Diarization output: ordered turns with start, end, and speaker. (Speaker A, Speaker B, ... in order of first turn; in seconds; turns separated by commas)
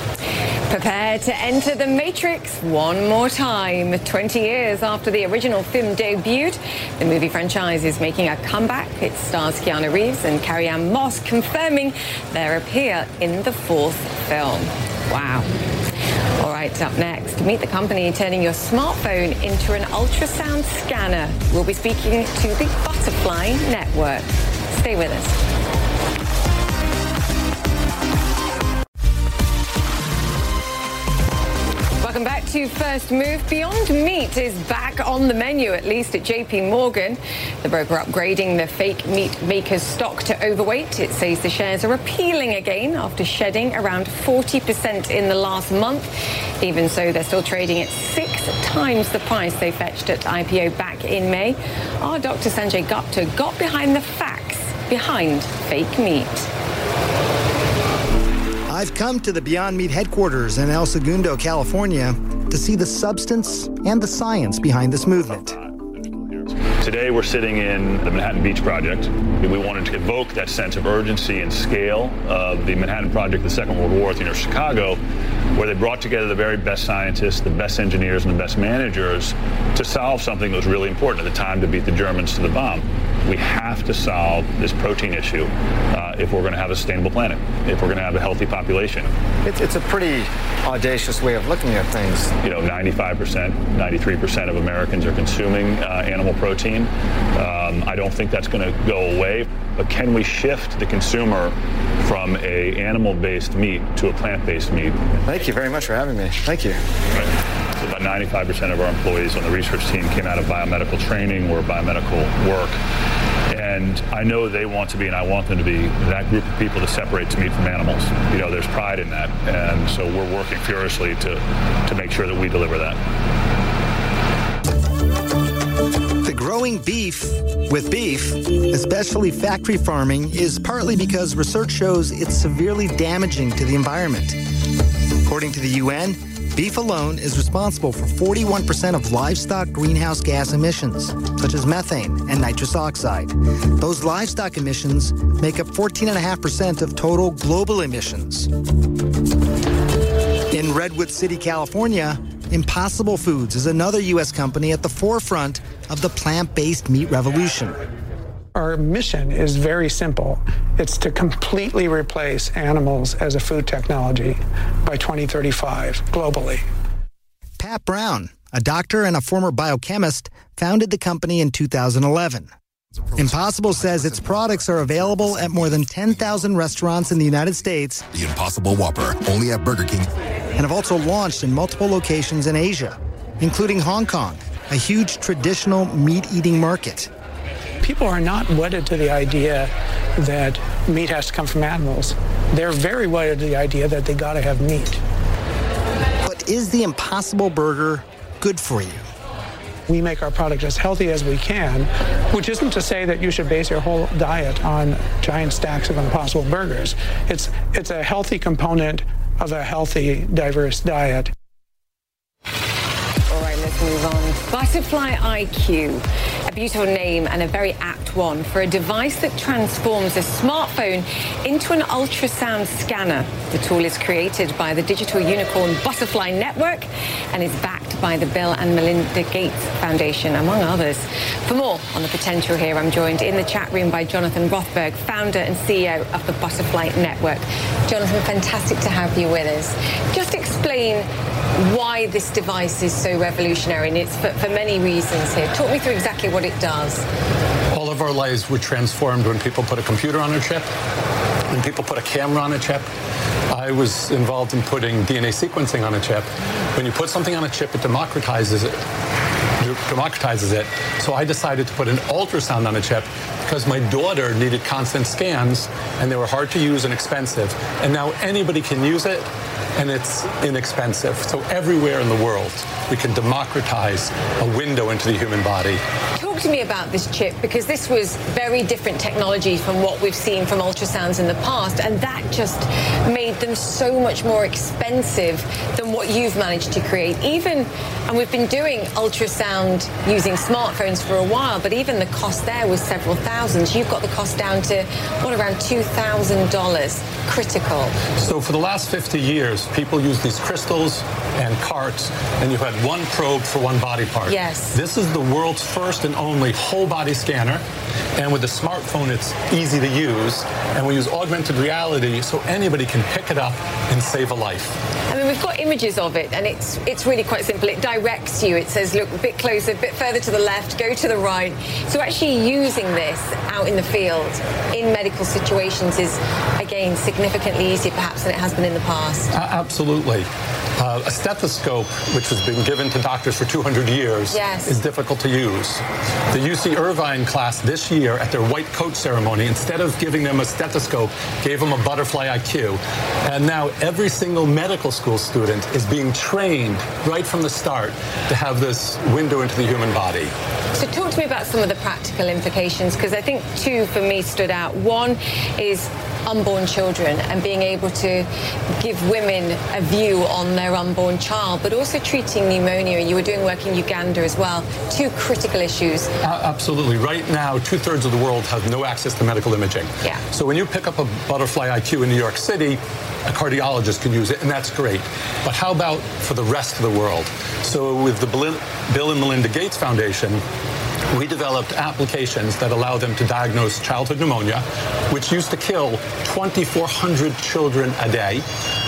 Speaker A: 0.7-15.5, Speaker A: 16.4-25.4, Speaker A: 32.0-56.5, Speaker B: 58.7-65.5, Speaker C: 65.3-75.0, Speaker C: 75.5-89.1, Speaker D: 89.4-92.3, Speaker C: 92.4-105.0, Speaker D: 105.2-106.8, Speaker C: 107.1-112.8, Speaker C: 113.5-123.0, Speaker B: 126.2-134.4, Speaker B: 135.2-148.5, Speaker B: 150.5-157.8, Speaker E: 158.5-166.6, Speaker B: 167.6-172.5, Speaker F: 173.1-175.2, Speaker B: 173.2-178.1, Speaker F: 178.1-180.1, Speaker B: 180.6-187.1, Speaker E: 187.8-195.0, Speaker B: 196.2-199.0, Speaker E: 199.9-211.3, Speaker A: 213.3-247.0, Speaker G: 247.7-250.7, Speaker G: 251.5-252.9, Speaker G: 253.5-258.8, Speaker G: 259.6-275.8, Speaker A: 276.1-297.9, Speaker G: 298.2-307.6, Speaker A: 304.3-304.8, Speaker G: 308.1-314.7, Speaker A: 315.1-329.3, Speaker G: 329.3-350.3, Speaker A: 334.3-334.8, Speaker A: 350.7-358.3, Speaker A: 358.8-366.1, Speaker G: 366.2-380.4, Speaker G: 381.1-388.4